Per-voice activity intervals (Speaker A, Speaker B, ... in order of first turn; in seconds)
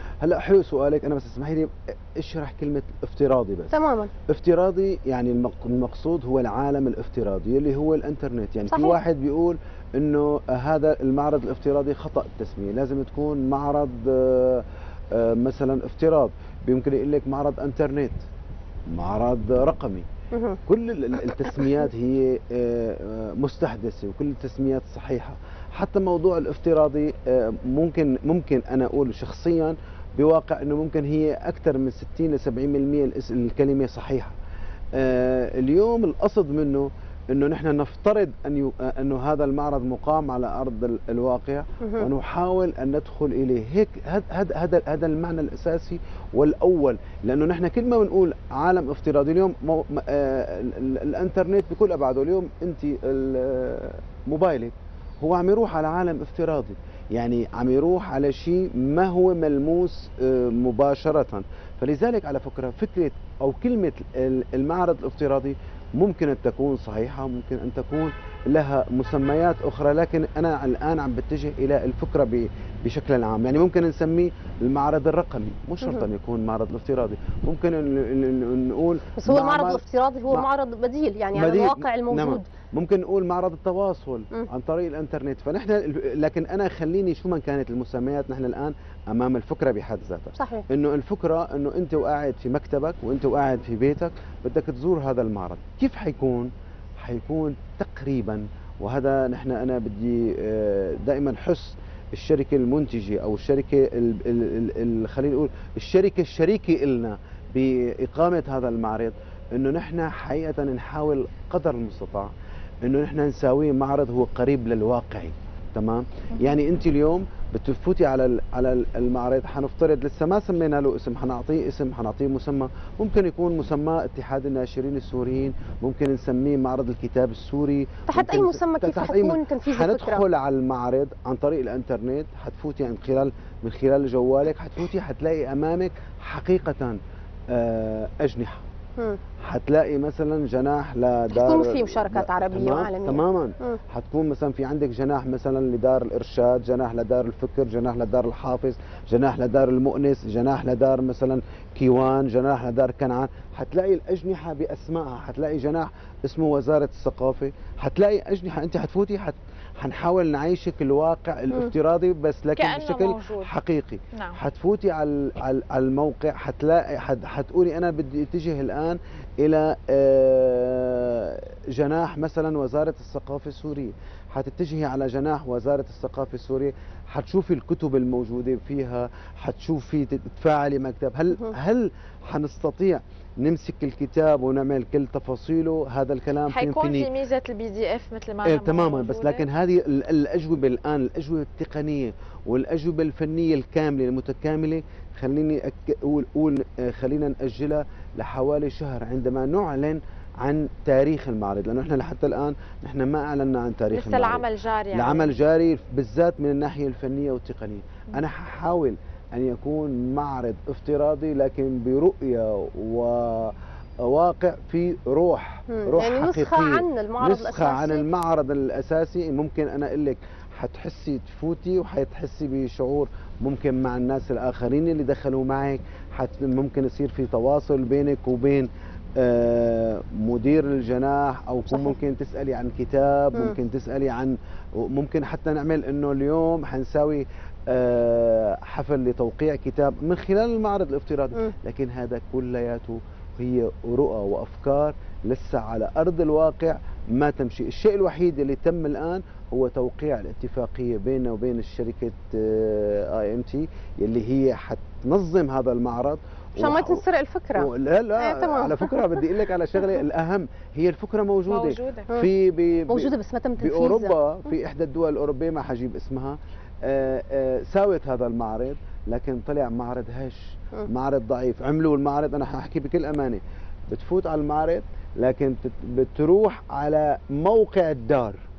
Speaker A: 0.2-3.7, 4.3-18.2, 18.9-20.1, 20.7-34.3, 34.9-80.5, 81.3-112.3, 112.8-137.0, 137.5-138.6, 139.4-187.1, 188.4-257.0, 257.6-278.4
Speaker B: 3.7-4.1, 8.7-9.0, 20.3-20.6, 79.2-82.5, 90.3-90.6, 128.1-130.2, 141.3-143.8, 215.7-218.0, 256.6-259.1, 262.9-264.1
Speaker C: 162.6-163.5, 164.1-164.4, 186.5-189.4, 203.9-205.3, 261.5-262.1